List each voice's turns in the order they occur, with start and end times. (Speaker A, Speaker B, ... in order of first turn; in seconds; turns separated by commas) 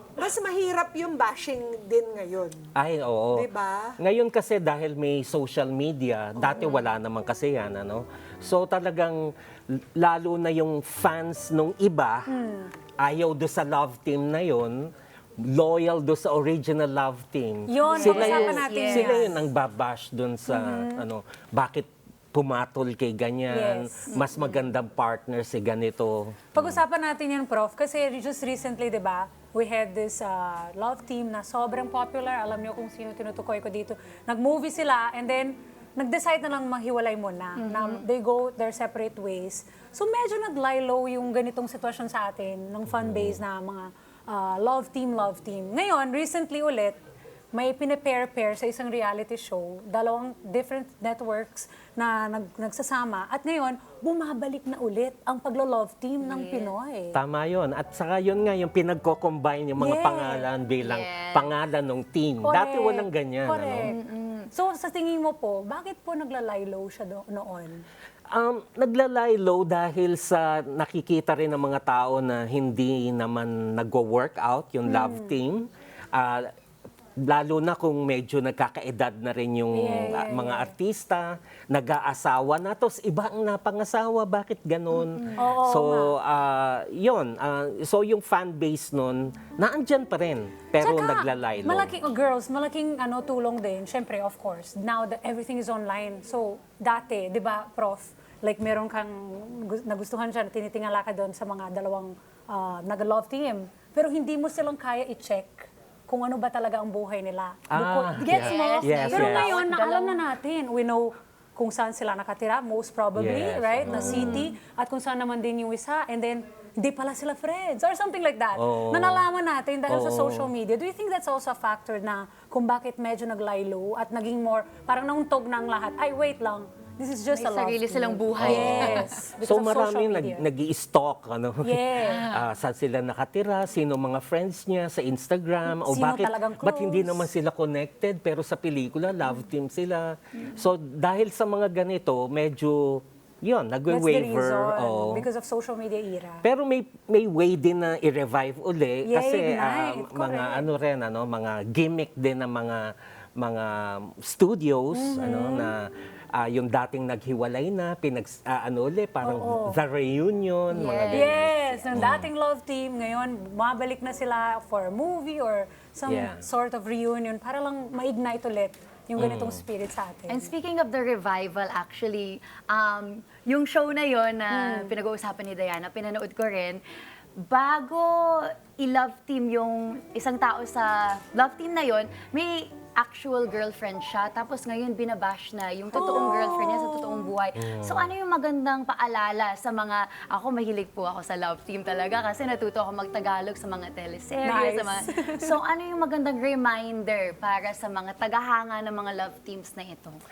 Speaker A: 0.2-2.6, Speaker B: 2.7-3.5, Speaker A: 3.3-4.0, Speaker B: 4.0-12.3, Speaker A: 6.4-6.8, Speaker C: 12.3-12.7, Speaker B: 13.0-26.8, Speaker C: 17.7-19.3, Speaker D: 17.8-19.3, Speaker C: 20.5-21.1, Speaker C: 23.5-24.1, Speaker D: 24.1-24.6, Speaker C: 26.5-47.0, Speaker D: 37.6-38.0, Speaker B: 42.9-43.4, Speaker C: 47.5-57.2, Speaker D: 56.2-56.7, Speaker B: 57.1-63.9, Speaker C: 59.8-60.5, Speaker D: 60.8-61.5, Speaker C: 62.4-64.0, Speaker D: 63.8-64.5, Speaker C: 64.5-67.8, Speaker B: 68.3-76.5, Speaker C: 74.9-75.3, Speaker B: 77.2-92.0, Speaker C: 79.7-80.7, Speaker C: 85.4-86.2, Speaker C: 90.8-130.4, Speaker B: 107.7-109.5, Speaker D: 108.2-110.2, Speaker B: 113.2-114.5, Speaker D: 113.8-114.5, Speaker B: 118.5-119.3, Speaker B: 119.9-120.5, Speaker D: 127.3-129.1, Speaker B: 128.4-145.3, Speaker C: 131.6-132.2, Speaker D: 132.0-132.5, Speaker C: 135.7-137.3, Speaker C: 143.9-146.4, Speaker B: 146.4-162.3, Speaker C: 149.0-150.7, Speaker C: 154.9-155.7, Speaker C: 159.2-159.8, Speaker D: 160.7-161.9, Speaker C: 161.1-170.5, Speaker B: 166.1-166.4, Speaker B: 169.2-169.6, Speaker D: 170.3-176.8, Speaker C: 174.5-174.9, Speaker D: 177.4-200.2, Speaker C: 185.9-187.2, Speaker A: 186.0-186.4, Speaker B: 187.6-188.1, Speaker C: 194.4-195.6